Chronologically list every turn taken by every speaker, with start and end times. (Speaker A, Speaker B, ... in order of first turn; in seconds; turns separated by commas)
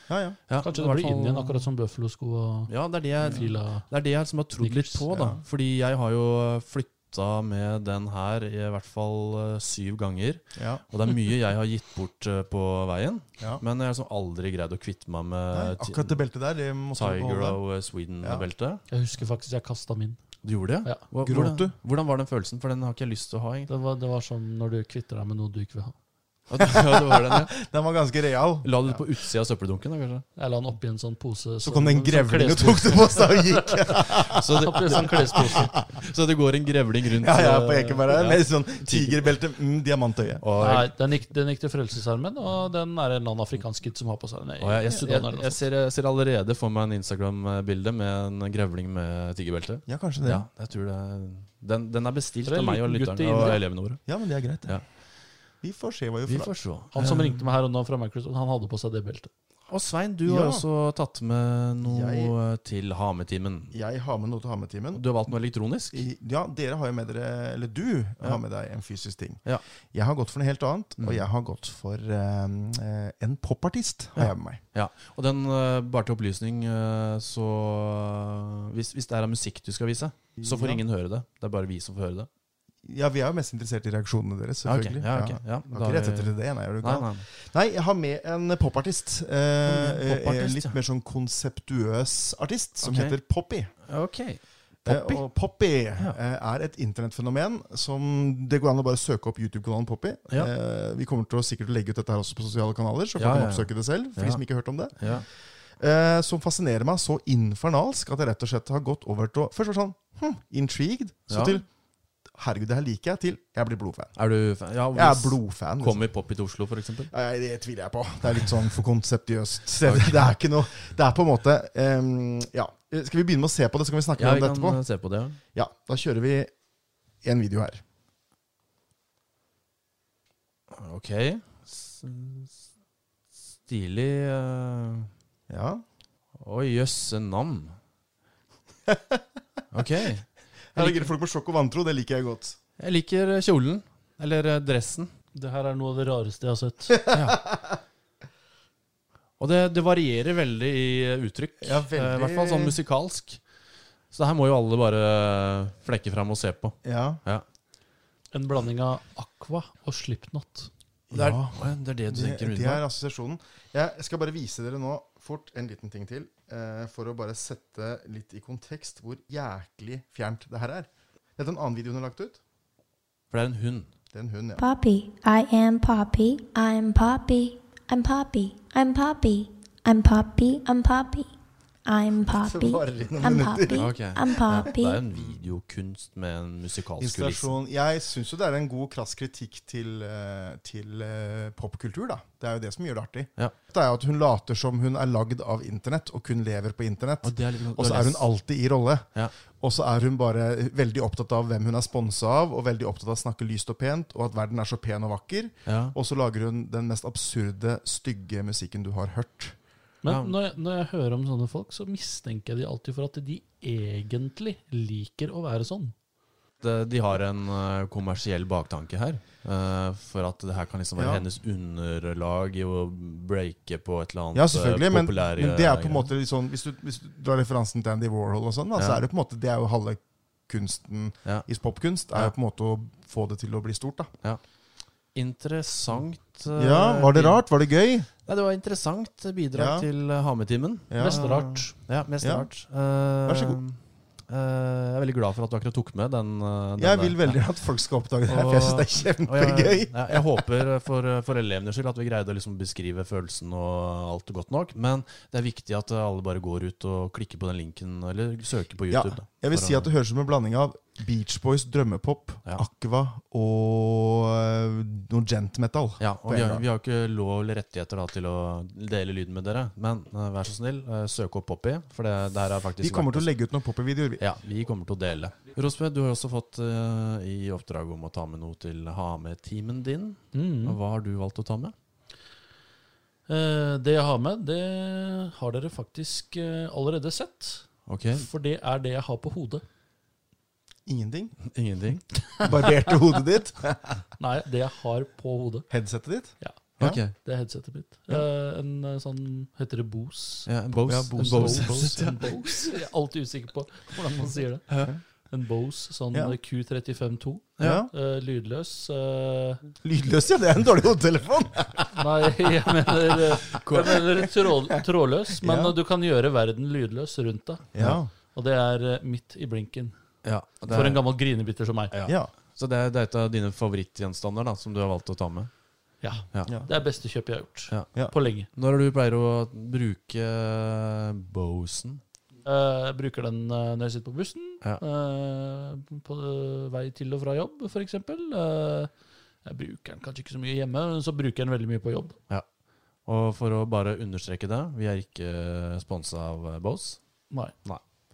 Speaker A: 0.1-0.4, Speaker B: 0.5-1.7, Speaker C: 0.6-3.9, Speaker B: 2.7-16.2, Speaker C: 4.6-5.1, Speaker A: 5.1-5.4, Speaker A: 10.6-10.8, Speaker A: 15.5-17.6, Speaker B: 16.9-18.8, Speaker C: 18.9-20.2, Speaker B: 20.4-23.7, Speaker A: 21.2-21.7, Speaker C: 23.7-25.9, Speaker B: 26.5-27.5, Speaker A: 26.6-29.0, Speaker B: 28.6-30.2, Speaker C: 30.4-35.8, Speaker A: 31.6-35.8, Speaker B: 34.3-39.3, Speaker A: 37.2-40.4, Speaker B: 40.4-40.9, Speaker C: 40.6-45.6, Speaker B: 44.6-54.0, Speaker A: 49.9-50.5, Speaker C: 52.5-53.6, Speaker A: 53.5-54.8, Speaker A: 55.6-56.6, Speaker B: 56.3-57.4, Speaker C: 56.9-59.3, Speaker B: 59.7-63.8, Speaker A: 60.3-60.6, Speaker A: 61.8-62.4, Speaker A: 63.7-65.1, Speaker B: 64.9-66.1, Speaker A: 65.9-74.6, Speaker B: 71.0-71.3, Speaker B: 74.2-82.3, Speaker A: 80.4-80.8, Speaker A: 82.8-93.7, Speaker B: 84.7-87.3, Speaker B: 89.6-90.8, Speaker B: 92.8-93.2, Speaker B: 93.8-95.3, Speaker A: 94.9-111.7, Speaker B: 103.2-104.4, Speaker B: 105.0-105.3, Speaker B: 111.3-111.6, Speaker A: 112.3-114.2, Speaker B: 114.2-117.1, Speaker A: 114.9-116.0, Speaker A: 117.1-124.8, Speaker B: 119.8-120.3, Speaker B: 124.2-125.4, Speaker A: 125.5-126.5, Speaker A: 127.2-127.8, Speaker B: 130.7-132.6, Speaker B: 133.7-135.1, Speaker A: 135.5-135.8, Speaker B: 136.4-137.8, Speaker A: 138.9-139.2, Speaker B: 139.7-141.1, Speaker A: 140.7-142.6, Speaker B: 142.8-145.1, Speaker C: 145.3-147.1, Speaker A: 147.1-147.8, Speaker B: 147.1-147.4, Speaker B: 149.4-153.4, Speaker A: 151.6-152.8, Speaker B: 154.1-157.4, Speaker A: 156.8-157.2, Speaker C: 158.3-160.7, Speaker A: 161.1-172.4, Speaker B: 161.1-162.8, Speaker B: 173.3-173.9, Speaker A: 174.1-174.6, Speaker D: 174.6-181.3, Speaker D: 181.9-185.0, Speaker A: 182.3-184.0, Speaker B: 183.7-187.5, Speaker A: 187.0-209.6, Speaker B: 197.2-198.3, Speaker B: 205.7-205.9, Speaker C: 210.0-215.9, Speaker B: 210.1-210.3, Speaker B: 216.6-226.1, Speaker A: 221.0-221.2, Speaker A: 224.3-234.1, Speaker B: 228.8-229.0, Speaker B: 235.1-237.4, Speaker A: 236.6-238.1, Speaker B: 238.3-247.4, Speaker A: 239.6-239.9, Speaker A: 240.9-241.4, Speaker C: 241.0-241.8, Speaker A: 242.2-242.5, Speaker A: 243.3-243.6, Speaker A: 246.8-250.5, Speaker B: 248.3-259.9, Speaker A: 258.9-266.6, Speaker B: 266.0-273.3, Speaker A: 272.8-274.2, Speaker B: 274.2-281.8, Speaker C: 280.3-280.8, Speaker C: 283.3-289.6, Speaker B: 287.9-288.3, Speaker A: 290.9-291.4, Speaker B: 291.4-292.1, Speaker A: 292.4-294.0, Speaker C: 294.2-295.7, Speaker A: 295.7-297.0, Speaker C: 296.4-300.5, Speaker B: 296.8-297.1, Speaker B: 300.5-302.3, Speaker A: 300.9-302.3, Speaker C: 301.2-304.8, Speaker B: 304.7-304.9, Speaker C: 305.3-309.7, Speaker A: 306.1-306.4, Speaker B: 307.6-307.8, Speaker A: 307.6-307.9, Speaker A: 309.8-312.0, Speaker C: 311.9-319.9, Speaker A: 312.9-314.8, Speaker B: 313.6-313.9, Speaker A: 315.4-315.8, Speaker A: 317.7-318.1, Speaker B: 320.2-321.0, Speaker C: 320.7-321.9, Speaker B: 321.9-325.5, Speaker A: 322.1-322.3, Speaker C: 326.0-328.5, Speaker B: 328.5-332.0, Speaker C: 332.4-338.9, Speaker C: 339.4-342.2, Speaker B: 343.1-347.0